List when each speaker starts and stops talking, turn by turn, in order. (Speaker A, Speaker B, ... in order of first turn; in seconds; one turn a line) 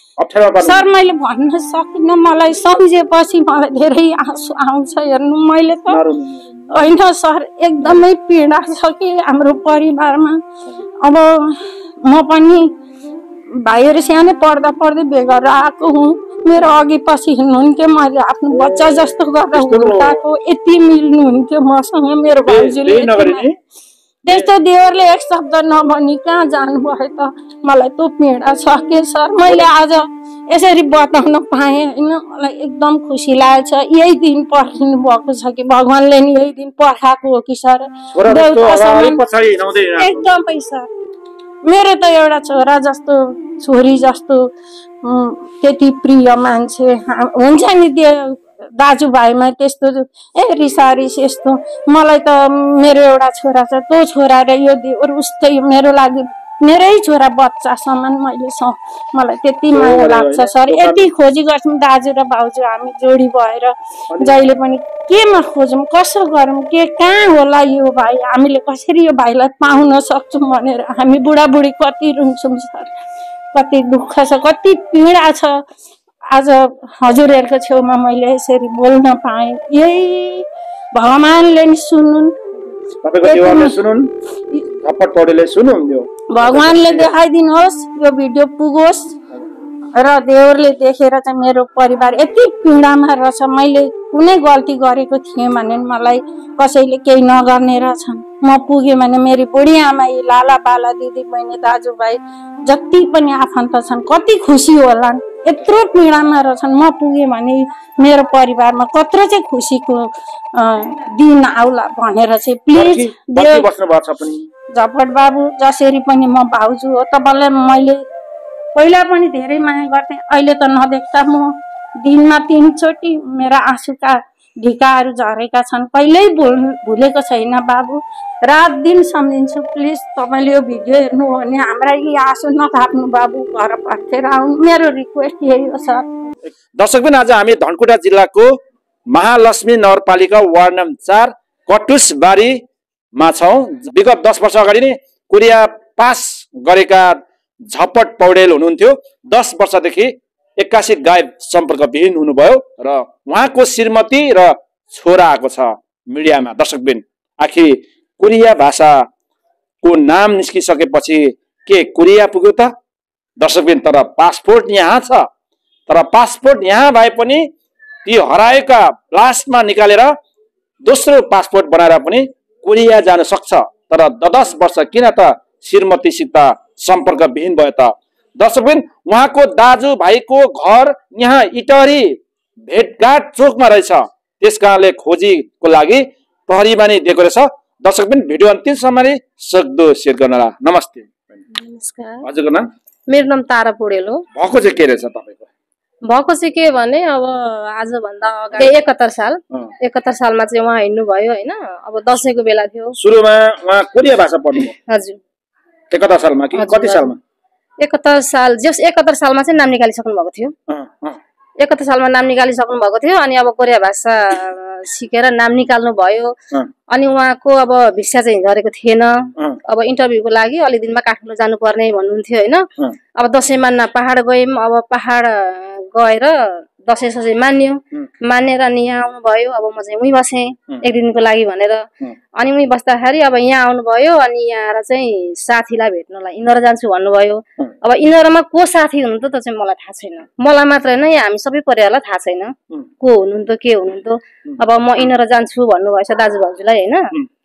Speaker A: 0.2-0.9
Speaker B: 0.6-6.0
Speaker A: 5.9-6.9
Speaker B: 6.7-10.4
Speaker B: 11.0-12.7
Speaker B: 13.6-23.4
Speaker A: 18.5-20.2
Speaker A: 22.5-23.6
Speaker B: 24.2-39.2
Speaker A: 38.1-40.2
Speaker B: 40.0-40.9
Speaker B: 41.6-44.4
Speaker B: 45.0-72.9
Speaker A: 59.7-61.1
Speaker A: 64.1-64.4
Speaker B: 73.5-75.6
Speaker B: 76.3-82.3
Speaker A: 83.0-84.1
Speaker B: 83.2-83.8
Speaker A: 84.8-87.1
Speaker B: 86.3-89.2
Speaker B: 90.0-113.7
Speaker A: 112.7-114.5
Speaker B: 114.7-118.0
Speaker B: 118.8-136.1
Speaker A: 136.8-138.5
Speaker A: 139.1-142.6
Speaker A: 143.2-147.2
Speaker A: 147.7-159.0
Speaker A: 159.8-162.7
Speaker A: 163.4-165.3
Speaker A: 165.9-167.4
Speaker A: 168.1-170.1
Speaker A: 170.8-182.2
Speaker A: 182.7-191.4
Speaker C: 191.6-192.2
Speaker A: 192.2-192.7
Speaker C: 193.1-194.2
Speaker A: 194.3-195.5
Speaker C: 196.1-202.9
Speaker A: 203.0-204.7
Speaker C: 204.9-205.2
Speaker A: 205.9-207.2
Speaker C: 206.6-207.1
Speaker C: 207.8-210.5
Speaker A: 210.7-211.2
Speaker C: 211.6-216.3
Speaker C: 216.9-219.2
Speaker C: 219.7-222.7
Speaker C: 223.2-231.8
Speaker C: 232.4-247.0